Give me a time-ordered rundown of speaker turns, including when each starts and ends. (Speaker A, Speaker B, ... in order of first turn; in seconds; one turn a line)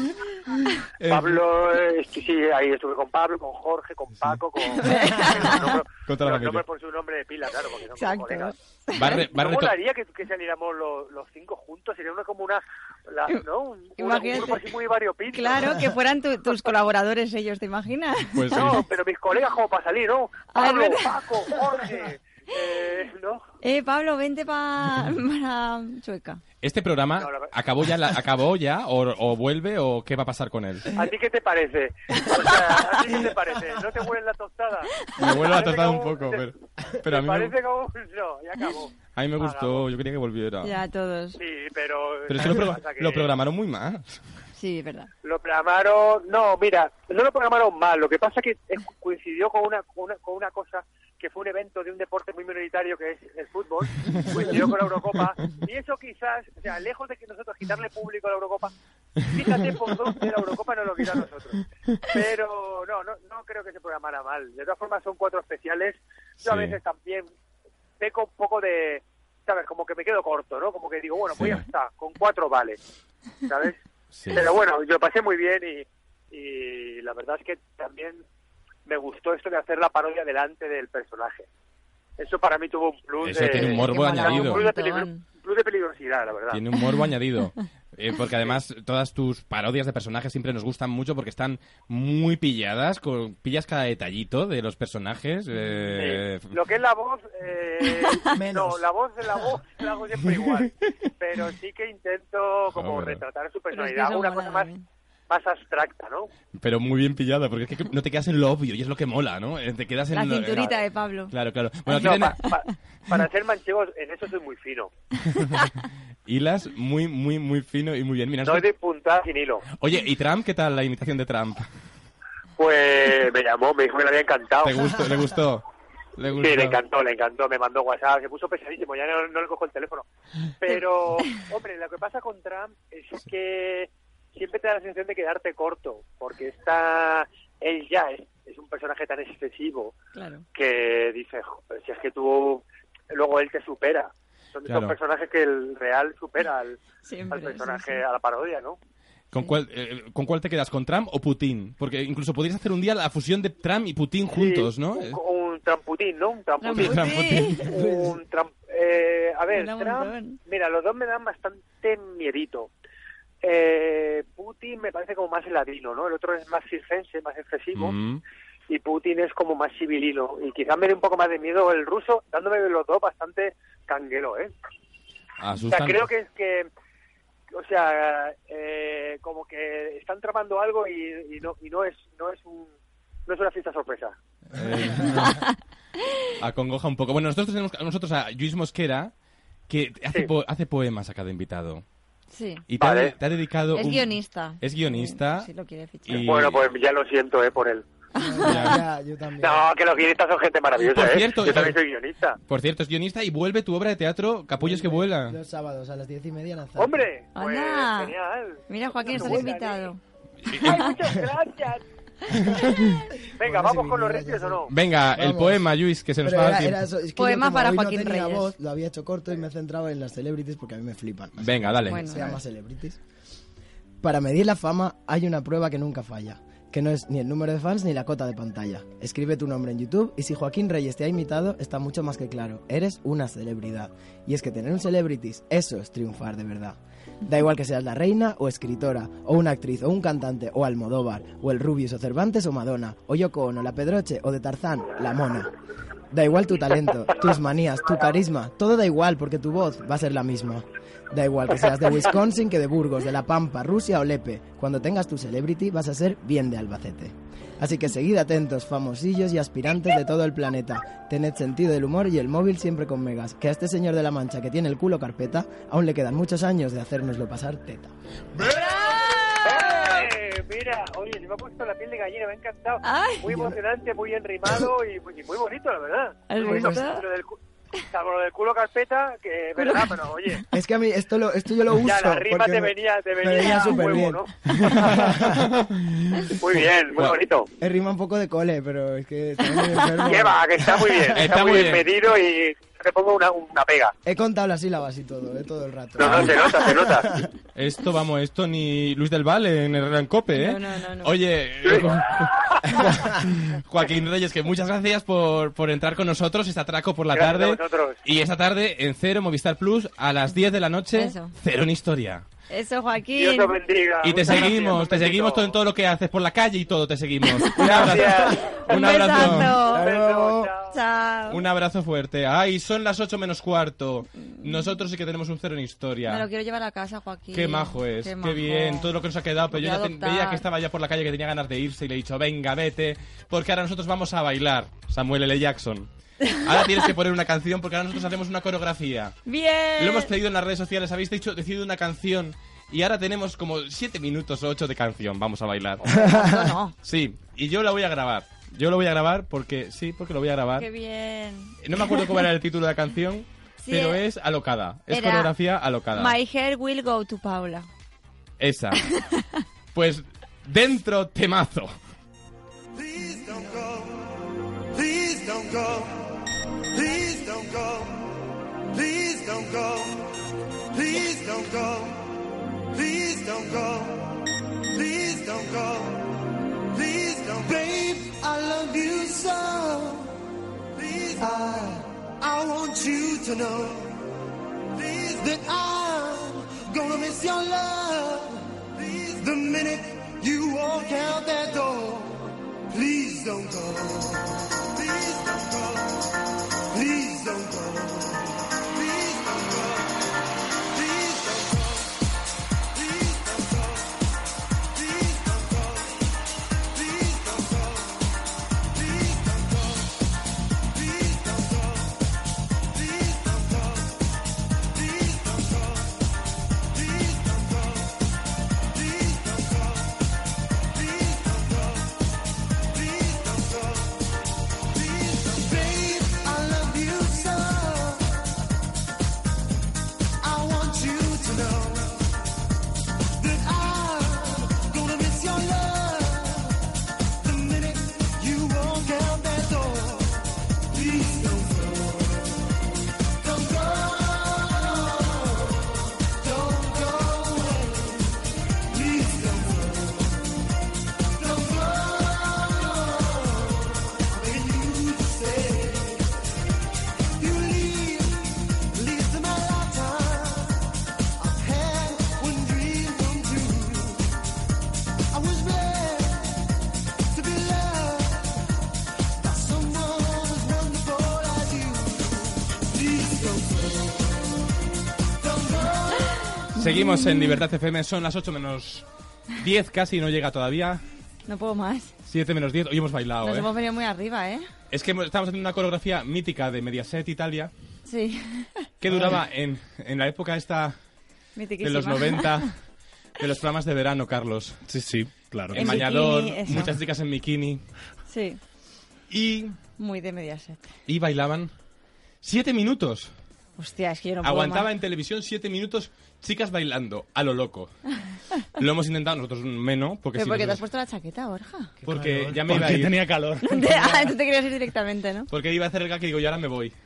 Speaker A: 1.0-1.4
Speaker B: 1.1-15.9
Speaker C: 4.7-5.8
Speaker A: 6.0-6.6
Speaker C: 7.9-9.3
Speaker A: 8.9-9.8
Speaker C: 14.0-14.7
Speaker C: 15.3-18.8
Speaker A: 18.3-18.8
Speaker B: 18.5-23.4
Speaker C: 20.5-21.6
Speaker C: 23.6-26.4
Speaker A: 26.6-31.0
Speaker B: 27.1-27.5
Speaker B: 30.9-36.5
Speaker A: 35.1-37.5
Speaker B: 37.0-39.9
Speaker A: 39.1-40.7
Speaker C: 40.6-41.4
Speaker B: 41.4-43.3
Speaker A: 42.3-44.2
Speaker C: 44.6-45.1
Speaker B: 45.2-58.7
Speaker B: 59.3-67.3
Speaker A: 66.4-66.8
Speaker B: 68.0-72.8
Speaker A: 71.3-71.6
Speaker B: 73.5-78.2
Speaker A: 74.1-74.5
Speaker B: 78.8-81.5
Speaker B: 82.2-86.6
Speaker A: 83.2-84.6
Speaker C: 83.4-85.2
Speaker A: 86.5-96.5
Speaker C: 86.7-87.1
Speaker B: 95.9-104.7
Speaker D: 98.3-98.8
Speaker A: 102.7-103.2
Speaker C: 103.7-104.8
Speaker B: 105.3-106.3
Speaker A: 106.5-110.7
Speaker C: 110.1-111.3
Speaker A: 111.3-112.4
Speaker C: 111.9-112.6
Speaker B: 111.9-114.9
Speaker A: 116.2-118.7
Speaker B: 118.4-119.7
Speaker A: 119.7-121.7
Speaker B: 122.6-125.0
Speaker A: 124.6-125.6
Speaker A: 126.2-126.8
Speaker B: 126.3-130.1
Speaker B: 130.6-139.9
Speaker C: 140.1-140.4
Speaker B: 140.5-146.8
Speaker A: 144.7-144.9
Speaker C: 147.0-148.0
Speaker B: 147.3-148.8
Speaker A: 149.3-155.2
Speaker B: 154.3-162.7
Speaker C: 156.6-157.7
Speaker A: 156.7-157.7
Speaker D: 157.7-158.2
Speaker C: 159.5-160.4
Speaker B: 163.4-167.9
Speaker A: 167.7-168.2
Speaker B: 168.7-174.5
Speaker A: 175.4-176.1
Speaker B: 175.7-176.7
Speaker B: 177.5-182.7
Speaker B: 183.2-184.2
Speaker A: 184.5-185.4
Speaker C: 185.2-185.5
Speaker A: 186.4-189.1
Speaker A: 189.7-191.8
Speaker C: 192.3-192.7
Speaker A: 192.7-195.5
Speaker B: 192.8-193.1
Speaker C: 193.7-196.4
Speaker A: 196.1-196.7
Speaker B: 196.1-197.8
Speaker C: 198.1-198.8
Speaker D: 198.2-199.7
Speaker A: 198.5-198.8
Speaker B: 199.4-202.4
Speaker A: 200.9-201.8
Speaker A: 202.5-205.4
Speaker D: 204.6-207.0
Speaker B: 206.8-209.9
Speaker C: 207.3-208.1
Speaker C: 208.7-210.0
Speaker A: 210.5-210.8
Speaker B: 210.5-211.8
Speaker C: 210.6-210.9
Speaker A: 212.7-212.9
Speaker B: 213.4-214.7
Speaker D: 213.4-215.6
Speaker A: 214.7-216.8
Speaker D: 216.2-223.0
Speaker C: 217.2-218.5
Speaker A: 221.4-222.2
Speaker C: 221.9-222.3
Speaker D: 224.0-245.5
Speaker D: 246.1-267.9
Speaker C: 268.4-269.9
Speaker B: 269.4-277.4
Speaker C: 272.8-273.4
Speaker D: 273.3-273.6
Speaker C: 276.3-277.0
Speaker D: 276.4-276.8
Speaker B: 277.9-280.4
Speaker C: 279.6-280.4
Speaker D: 280.5-285.5
Speaker B: 281.8-285.2
Speaker C: 283.4-283.8
Speaker A: 284.7-286.3
Speaker B: 286.3-287.5
Speaker D: 287.6-290.6
Speaker C: 289.5-290.0
Speaker B: 290.0-293.9
Speaker A: 291.1-291.9
Speaker D: 294.0-297.3
Speaker B: 296.0-297.1
Speaker A: 296.0-296.4
Speaker A: 297.5-312.2
Speaker C: 300.3-301.2
Speaker B: 301.6-302.6
Speaker B: 307.1-308.0
Speaker C: 310.9-311.3
Speaker C: 312.5-313.6
Speaker B: 313.1-315.6
Speaker A: 314.0-319.6
Speaker C: 317.3-317.8
Speaker B: 317.6-320.8
Speaker D: 317.9-318.3
Speaker C: 318.6-319.9
Speaker D: 319.6-320.5
Speaker C: 320.7-321.4
Speaker A: 321.3-326.2
Speaker C: 324.4-324.8
Speaker C: 326.1-328.9
Speaker A: 327.3-339.2
Speaker C: 329.5-330.4
Speaker C: 339.2-340.1
Speaker A: 339.8-345.9
Speaker C: 345.8-346.7
Speaker D: 345.9-346.6
Speaker A: 346.8-350.7
Speaker C: 350.6-352.3
Speaker A: 351.6-356.1
Speaker C: 353.6-354.0
Speaker C: 354.9-355.3
Speaker C: 355.9-357.7
Speaker A: 358.4-358.9
Speaker C: 358.9-359.2
Speaker A: 359.7-361.7
Speaker E: 362.7-370.1
Speaker E: 370.7-372.2
Speaker E: 372.7-380.2
Speaker E: 380.7-384.1
Speaker E: 384.6-396.1
Speaker E: 396.7-400.1
Speaker E: 400.6-402.0
Speaker E: 402.7-404.1
Speaker E: 404.6-406.1
Speaker E: 406.6-410.0
Speaker E: 410.6-412.0
Speaker E: 412.7-416.1
Speaker E: 416.6-418.1
Speaker E: 418.6-424.0
Speaker E: 424.6-428.3
Speaker E: 430.2-432.1
Speaker E: 433.1-442.4
Speaker E: 443.2-450.3
Speaker E: 451.1-456.1
Speaker E: 457.2-464.2
Speaker E: 465.1-466.5
Speaker E: 467.1-468.4
Speaker E: 469.1-474.4
Speaker E: 475.1-476.3
Speaker C: 476.1-477.4
Speaker A: 476.5-480.8
Speaker C: 481.3-481.9
Speaker A: 482.1-483.5
Speaker C: 483.2-484.4
Speaker A: 484.7-487.5
Speaker C: 487.9-488.7
Speaker A: 488.8-490.8
Speaker F: 488.9-489.2
Speaker C: 491.4-492.5
Speaker A: 491.6-492.5
Speaker A: 493.2-494.6
Speaker F: 494.7-495.9
Speaker A: 495.5-497.6
Speaker C: 495.5-496.7
Speaker C: 498.1-498.4
Speaker A: 499.1-499.6
Speaker C: 499.8-500.8
Speaker A: 500.9-501.5
Speaker A: 502.2-503.1
Speaker C: 503.6-504.7
Speaker A: 504.2-507.7
Speaker A: 508.6-510.6
Speaker C: 510.1-511.7
Speaker D: 511.8-512.6
Speaker A: 511.8-514.0
Speaker F: 512.4-513.9
Speaker C: 513.4-515.3
Speaker A: 515.3-516.7